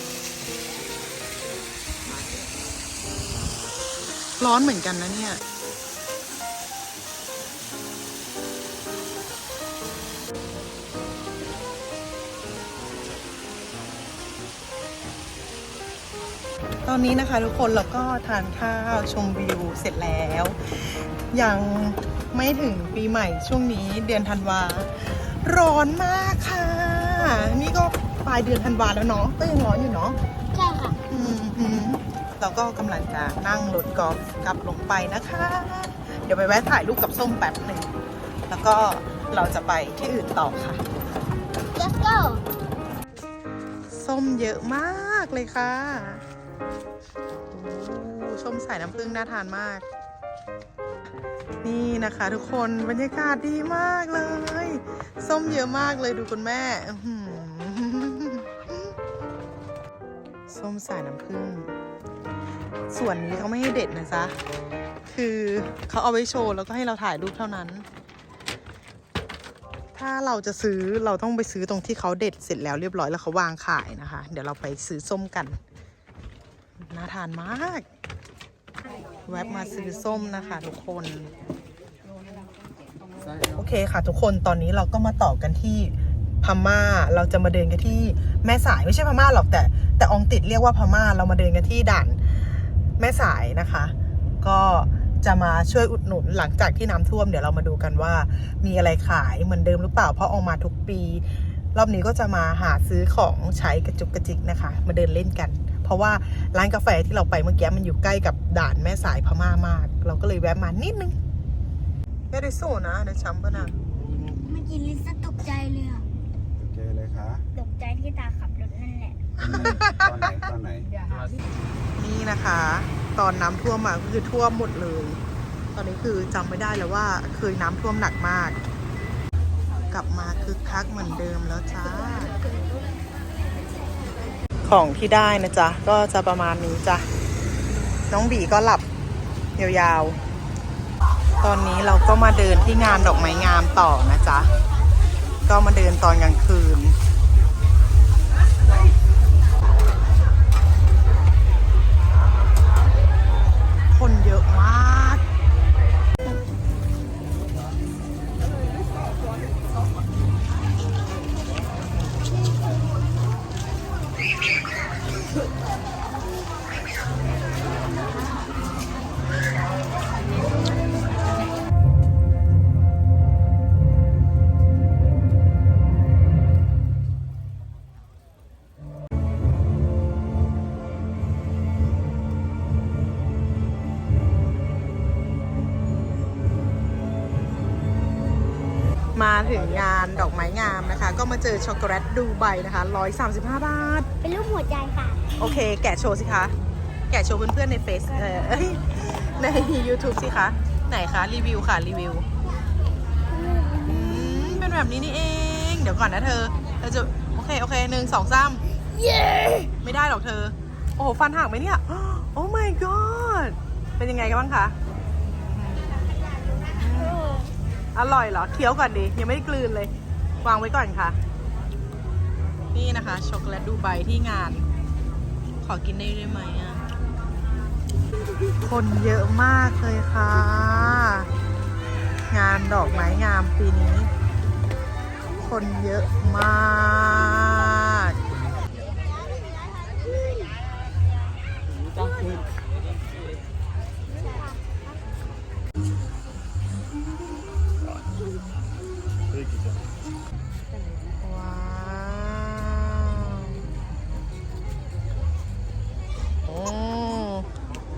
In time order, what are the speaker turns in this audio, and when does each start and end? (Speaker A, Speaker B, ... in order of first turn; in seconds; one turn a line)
Speaker A: 4.4-5.4
Speaker A: 16.8-30.2
Speaker B: 30.5-31.0
Speaker A: 31.1-37.9
Speaker A: 38.5-40.8
Speaker B: 41.7-42.4
Speaker A: 43.9-46.2
Speaker A: 47.5-49.8
Speaker A: 51.6-58.7
Speaker A: 60.5-61.7
Speaker A: 62.9-64.3
Speaker A: 65.1-67.8
Speaker A: 69.9-75.6
Speaker A: 76.8-77.9
Speaker A: 79.2-81.3
Speaker A: 83.5-111.1
Speaker A: 112.3-113.7
Speaker B: 114.1-116.1
Speaker C: 116.6-117.4
Speaker B: 117.5-119.2
Speaker A: 119.4-120.5
Speaker C: 119.4-120.9
Speaker A: 122.0-125.2
Speaker A: 125.7-128.6
Speaker A: 129.9-132.3
Speaker B: 132.4-132.7
Speaker A: 134.6-137.1
Speaker A: 138.1-138.8
Speaker A: 139.6-140.2
Speaker A: 141.4-144.5
Speaker A: 145.4-146.9
Speaker A: 153.9-155.2
Speaker A: 189.1-194.1
Speaker B: 194.2-195.4
Speaker A: 195.3-196.5
Speaker A: 197.1-202.2
Speaker B: 203.3-204.3
Speaker A: 203.8-208.7
Speaker B: 209.1-209.6
Speaker A: 209.6-214.8
Speaker A: 215.4-216.0
Speaker A: 216.7-217.2
Speaker B: 217.2-217.4
Speaker A: 217.9-219.9
Speaker A: 220.4-221.2
Speaker A: 222.7-224.7
Speaker A: 225.6-226.8
Speaker A: 228.6-231.3
Speaker A: 232.3-234.1
Speaker A: 235.3-238.2
Speaker B: 239.1-240.5
Speaker B: 244.1-244.7
Speaker A: 251.2-253.6
Speaker A: 256.4-257.5